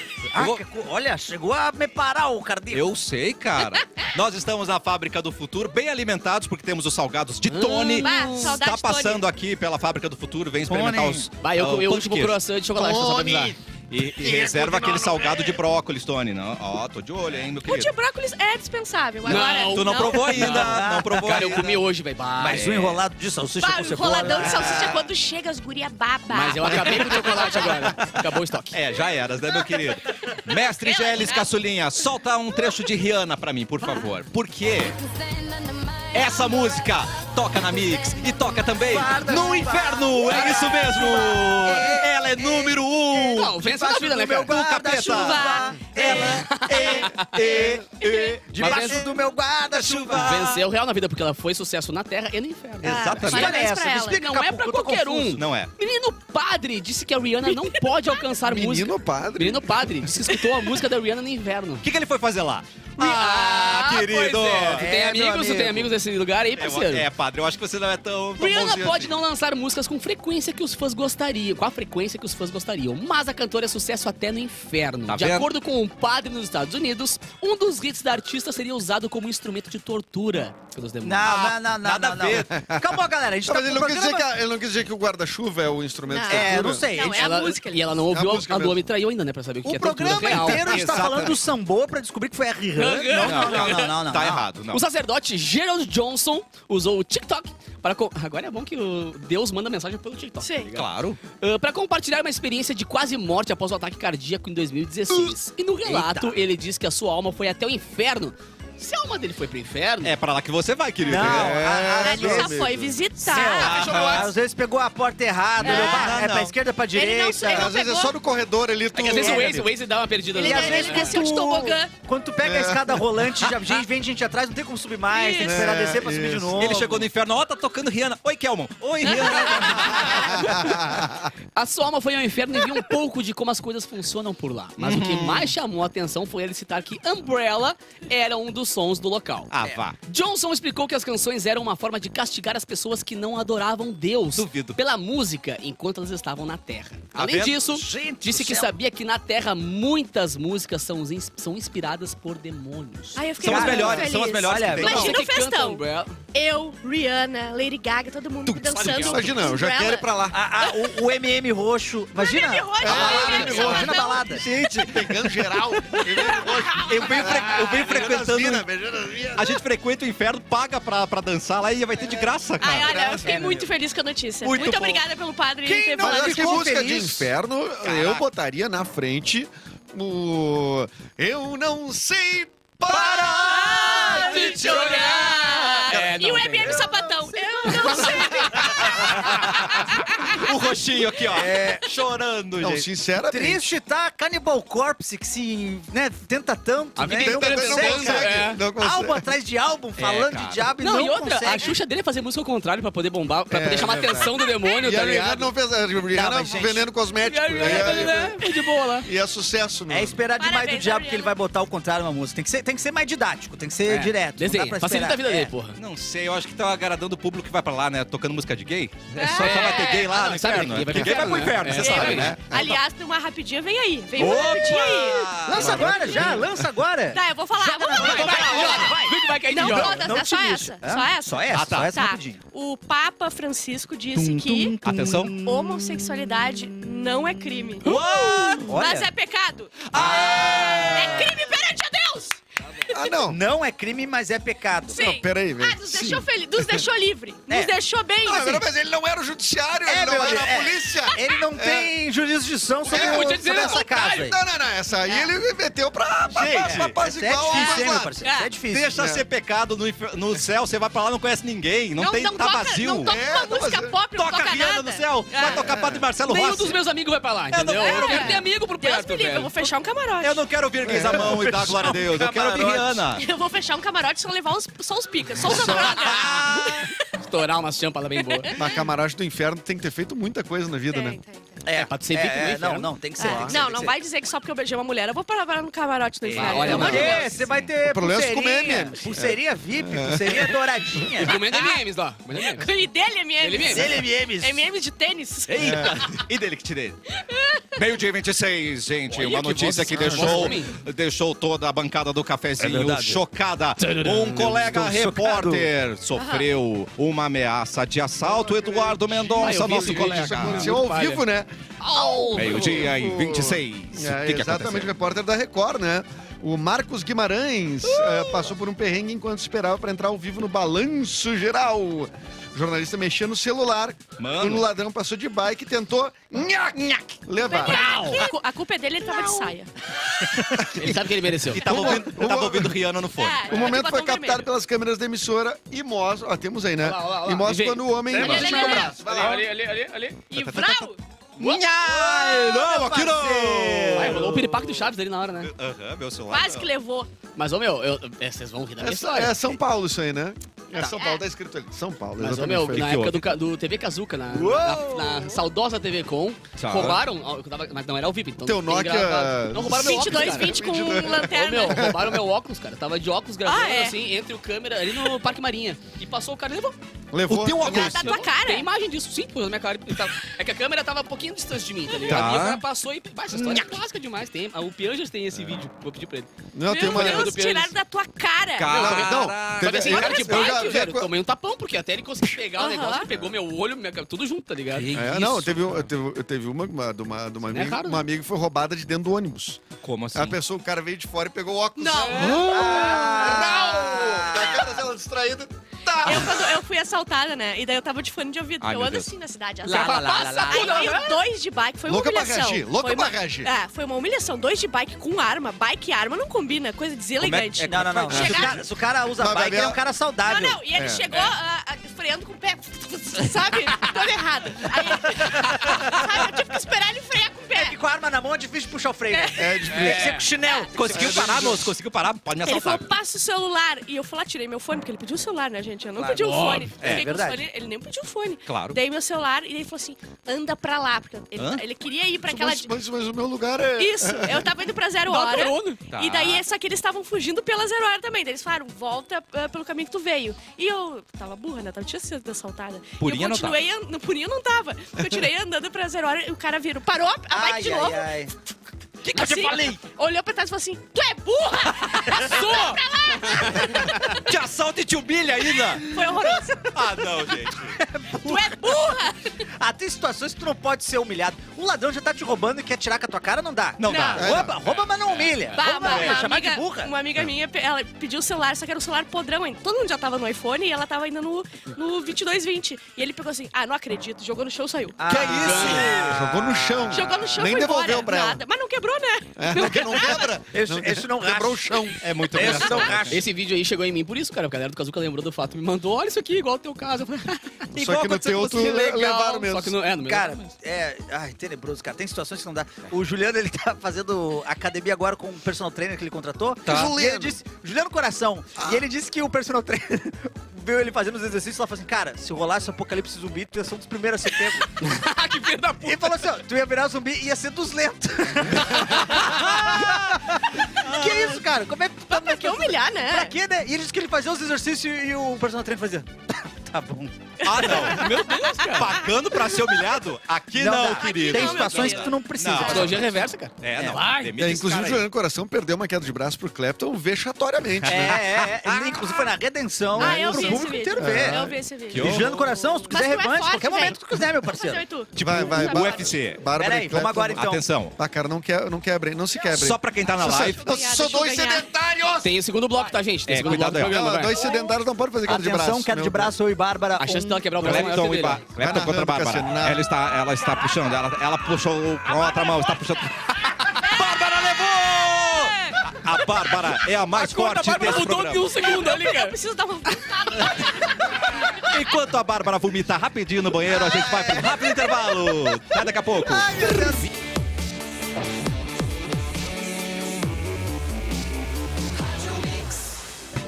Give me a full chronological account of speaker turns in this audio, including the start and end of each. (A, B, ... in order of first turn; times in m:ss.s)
0:00.3-0:02.9 A
0:00.3-0:00.6 B
0:02.7-0:12.4 B
0:03.7-0:04.1 C
0:07.4-0:08.5 D
0:08.0-0:09.2 C
0:10.7-0:11.3 A
0:11.4-0:13.6 D
0:12.7-0:15.6 E
0:13.9-0:17.9 B
0:17.6-0:20.5 C
0:19.2-0:23.0 D
0:19.3-0:21.8 B
0:20.3-0:21.7 A
0:22.4-0:25.1 A
0:23.6-0:27.7 C
0:26.3-0:28.8 D
0:26.8-0:28.0 B
0:28.7-0:35.0 B
0:30.8-0:31.4 C
0:36.1-0:43.6 B
0:38.8-0:47.8 A
0:43.2-0:44.6 D
0:44.4-0:49.2 B
0:45.0-0:46.6 C
0:46.3-0:47.3 D
0:48.0-0:48.3 C
0:48.5-0:50.6 A
0:48.6-0:49.0 D
0:49.7-0:50.6 B
0:50.1-0:53.6 D
0:52.8-0:53.6 B
0:52.8-0:54.2 C
0:53.2-0:55.4 A
0:54.2-1:01.8 D
0:55.3-0:55.7 B
0:57.5-0:57.8 C
0:58.4-1:00.1 E
1:01.8-1:04.8 B
1:03.0-1:07.1 D
1:04.8-1:05.9 A
1:06.6-1:09.1 B
1:08.4-1:21.4 D
1:15.1-1:15.5 B
1:21.0-1:24.3 A
1:21.2-1:22.8 B
1:23.4-1:26.8 E
1:26.1-1:27.9 C
1:26.3-1:27.4 A
1:27.0-1:31.3 D
1:28.0-1:28.8 E
1:29.6-1:34.5 A
1:30.1-1:31.4 B
1:32.8-1:34.0 D
1:33.2-1:34.8 B
1:34.7-1:50.1 D
1:40.4-1:40.7 C
1:40.7-1:41.2 B
1:45.8-1:46.4 A
1:50.0-1:51.6 B
1:51.0-1:52.6 A
1:51.0-1:53.0 E
1:52.0-1:53.7 C
1:53.2-1:57.7 A
1:53.4-1:54.3 D
1:53.5-1:54.3 B
1:55.6-1:56.5 B
1:55.6-1:56.2 C
1:56.9-1:58.1 C
1:57.5-1:59.7 E
1:58.9-2:01.2 D
1:59.0-1:59.6 A
2:00.3-2:01.9 C
2:00.3-2:07.1 A
2:02.4-2:03.5 E
2:05.1-2:05.8 C
2:05.4-2:06.6 E
2:06.5-2:10.5 B
2:09.0-2:10.2 C
2:10.1-2:11.3 E
2:11.5-2:19.5 D
2:14.8-2:15.5 B
2:19.5-2:20.0 B
2:20.0-2:33.3 D
2:24.3-2:24.8 B
2:27.1-2:27.6 B
2:27.7-2:28.7 A
2:33.2-2:35.8 C
2:33.4-2:35.2 B
2:33.4-2:35.1 A
2:34.8-2:36.2 D
2:36.3-2:40.1 C
2:38.4-2:40.4 E
2:38.7-2:39.4 D
2:40.3-2:44.4 A
2:42.2-2:44.4 C
2:42.8-2:44.0 E
2:42.9-2:45.4 B
2:44.6-2:49.6 E
2:46.0-2:48.6 B
2:47.1-2:47.6 D
2:49.3-2:53.2 B
2:52.0-2:53.6 E
2:52.6-2:56.7 C
2:53.2-2:53.7 A
2:54.4-2:55.0 A
2:54.5-2:55.0 E
2:55.6-3:04.9 E
2:56.0-2:57.3 A
2:57.8-2:58.2 B
3:02.9-3:05.3 A
3:02.9-3:10.4 C
3:03.1-3:04.1 B
3:04.2-3:06.8 D
3:06.6-3:07.1 E
3:07.7-3:08.3 E
3:08.8-3:12.9 B
3:09.0-3:09.5 A
3:11.3-3:11.9 A
3:12.6-3:13.7 E
3:13.2-3:21.7 A
3:17.0-3:18.6 D
3:17.1-3:19.2 E
3:20.0-3:20.6 B
3:20.8-3:25.5 D
3:23.5-3:28.5 E
3:24.3-3:24.8 C
3:26.1-3:26.9 A
3:27.2-3:29.1 D
3:27.6-3:28.1 A
3:29.0-3:30.2 E
3:29.9-3:35.5 A
3:30.4-3:31.4 C
3:33.9-3:35.8 D
3:35.8-3:42.5 B
3:39.1-3:40.1 C
3:39.4-3:42.4 D
3:41.8-3:45.3 C
3:44.2-3:46.2 B
3:44.2-3:44.6 A
3:45.4-3:52.4 A
3:45.5-3:46.5 E
3:47.1-3:48.9 C
3:48.0-3:50.1 D
3:49.5-3:54.8 C
3:51.5-3:51.9 B
3:54.1-3:57.9 A
3:54.8-3:55.3 B
3:55.4-4:03.2 C
3:57.8-3:58.8 B
3:58.6-3:59.1 A
3:59.9-4:01.3 B
3:59.9-4:01.2 A
4:02.9-4:03.4 E
4:03.3-4:05.0 A
4:04.9-4:08.7 C
4:04.9-4:06.8 E
4:08.2-4:11.9 E
4:09.8-4:14.4 A
4:12.8-4:14.0 D
4:12.8-4:18.2 E
4:16.3-4:17.0 B
4:16.6-4:18.9 A
4:17.5-4:18.5 C
4:18.7-4:23.2 B
4:18.9-4:19.2 E
4:22.0-4:25.6 C
4:23.0-4:24.0 E
4:24.1-4:26.8 B
4:25.4-4:26.0 E
4:26.2-4:29.7 D
4:27.5-4:28.4 B
4:27.8-4:30.4 C
4:30.2-4:33.2 B
4:30.8-4:31.5 E
4:31.0-4:33.0 A
4:33.1-4:36.9 C
4:35.4-4:36.0 E
4:35.5-4:36.9 B
4:36.1-4:36.3 D
4:37.2-4:38.5 D
4:38.2-4:38.9 C
4:38.6-4:41.2 E
4:40.9-4:41.6 C
4:41.6-4:43.9 A
4:41.7-4:43.5 D
4:43.2-4:47.4 C
4:46.3-4:51.6 A
4:46.3-4:47.7 B
4:46.4-4:47.2 D
4:47.8-4:51.1 E
4:51.2-4:52.7 D
4:52.3-4:56.2 C
4:53.4-4:54.0 D
4:53.6-4:54.6 A
4:55.5-4:57.0 B
4:55.6-4:56.0 E
4:57.2-4:57.8 C
4:57.8-5:10.8 B
4:59.1-5:00.8 D
4:59.9-5:00.5 E
5:02.6-5:03.2 A
5:03.8-5:04.7 D
5:04.6-5:05.7 A
5:06.2-5:06.5 C
5:08.2-5:28.2 E
5:09.3-5:11.2 D
5:11.8-5:13.0 D
5:12.3-5:14.9 B
5:17.9-5:18.4 D
5:24.2-5:24.7 B
5:27.4-5:29.7 C
5:27.5-5:28.3 D
5:29.2-5:29.5 D
5:30.6-5:30.9 E
5:30.7-5:32.0 D
5:31.5-5:33.6 B
5:31.5-5:32.9 E
5:33.2-5:34.5 C
5:33.5-5:39.5 E
5:36.8-5:40.3 D
5:38.1-5:39.4 C
5:40.3-5:41.0 C
5:40.4-5:40.9 E
5:41.4-5:44.7 B
5:41.4-5:41.6 D
5:42.0-5:44.2 A
5:43.8-5:44.2 E
5:43.9-5:45.5 D
5:45.4-5:46.7 B
5:46.3-5:47.1 C
5:47.4-5:49.6 D
5:48.8-5:52.9 E
5:50.7-5:51.2 C
5:52.2-6:00.6 D
5:52.7-5:53.2 B
5:54.6-5:55.3 A
5:56.6-5:57.0 B
5:58.4-6:02.1 E
5:59.7-6:02.0 C
6:01.3-6:06.8 D
6:03.4-6:04.0 C
6:07.1-6:08.0 E
6:07.3-6:07.9 A
6:07.5-6:08.7 C
6:07.5-6:17.8 D
6:12.0-6:12.6 B
6:13.3-6:13.8 B
6:16.5-6:17.4 E
6:16.7-6:18.8 C
6:18.6-6:20.3 B
6:18.7-6:25.4 D
6:18.7-6:21.1 E
6:19.9-6:20.9 C
6:22.6-6:23.1 C
6:24.7-6:25.6 B
6:24.9-6:36.6 E
6:27.5-6:28.0 D
6:29.8-6:30.4 B
6:31.8-6:33.4 C
6:32.2-6:34.8 A
6:32.2-6:32.5 D
6:36.0-6:48.6 C
6:38.6-6:39.1 B
6:39.6-6:41.1 A
6:39.8-6:41.0 D
6:39.8-6:40.3 B
6:41.8-6:43.5 E
6:47.2-6:48.6 B
6:47.6-6:50.6 A
6:48.1-6:48.6 E
6:49.2-6:49.8 E
6:50.2-6:57.8 C
6:50.8-6:51.0 E
6:55.1-6:56.0 A
6:57.5-7:01.6 A
6:59.1-6:59.9 C
6:59.4-7:00.0 E
6:59.7-7:00.3 D
7:00.4-7:00.7 C
7:00.7-7:02.8 B
7:00.9-7:01.7 E
7:02.4-7:12.7 C
7:06.0-7:07.4 A
7:06.2-7:06.7 D
7:06.8-7:07.1 B
7:08.4-7:08.8 B
7:11.3-7:11.6 B
7:12.2-7:14.5 E
7:13.8-7:28.1 C
7:15.0-7:15.8 D
7:15.9-7:16.4 B
7:23.0-7:23.6 B
7:27.3-7:28.3 A
7:29.0-7:29.8 B
7:29.1-7:34.2 C
7:29.2-7:29.5 A
7:32.1-7:32.8 A
7:33.6-7:36.1 B
7:35.6-7:37.5 C
7:36.7-7:37.8 B
7:37.8-7:39.0 A
7:38.1-7:39.4 C
7:39.6-7:46.9 A
7:43.8-7:46.2 B
7:43.8-7:44.2 C
7:44.2-7:44.6 E
7:45.6-7:55.9 C
7:55.0-7:57.3 A
7:55.1-7:56.2 B
7:55.3-7:56.0 D
7:55.4-7:58.4 E
7:56.9-8:00.3 C
7:59.4-8:02.9 E
8:00.5-8:03.2 A
8:02.0-8:03.2 B
8:03.1-8:07.7 D
8:07.7-8:09.8 E
8:07.7-8:08.8 A
8:08.3-8:10.5 D
8:10.0-8:24.7 A
8:16.6-8:17.0 B
8:16.7-8:17.4 E
8:24.8-8:26.1 D
8:25.8-8:37.2 A
8:29.0-8:31.4 B
8:32.1-8:33.3 C
8:37.4-8:40.0 C
8:37.4-8:43.0 B
8:38.3-8:38.9 D
8:40.5-8:43.1 A
8:40.9-8:43.0 C
8:42.6-8:44.3 D
8:43.6-8:45.1 B
8:44.4-8:48.2 E
8:47.8-8:49.3 B
8:47.9-8:54.8 A
8:50.0-8:56.1 C
8:50.0-8:50.4 B
8:50.3-8:51.6 E
8:51.9-8:52.4 B
8:55.2-8:56.5 B
8:55.2-9:02.4 E
8:56.6-8:57.6 A
8:57.3-8:58.0 B
8:59.4-9:00.8 B
9:00.2-9:01.7 C
9:02.2-9:04.4 D
9:03.3-9:04.2 B
9:03.6-9:06.3 E
9:04.3-9:04.8 C
9:05.2-9:08.0 A
9:07.0-9:08.4 D
9:07.6-9:18.6 B
9:08.6-9:09.9 E
9:13.7-9:15.8 C
9:17.1-9:19.4 D
9:18.6-9:21.1 C
9:21.5-9:26.8 B
9:24.0-9:24.4 A
9:24.2-9:24.4 E
9:26.2-9:27.1 E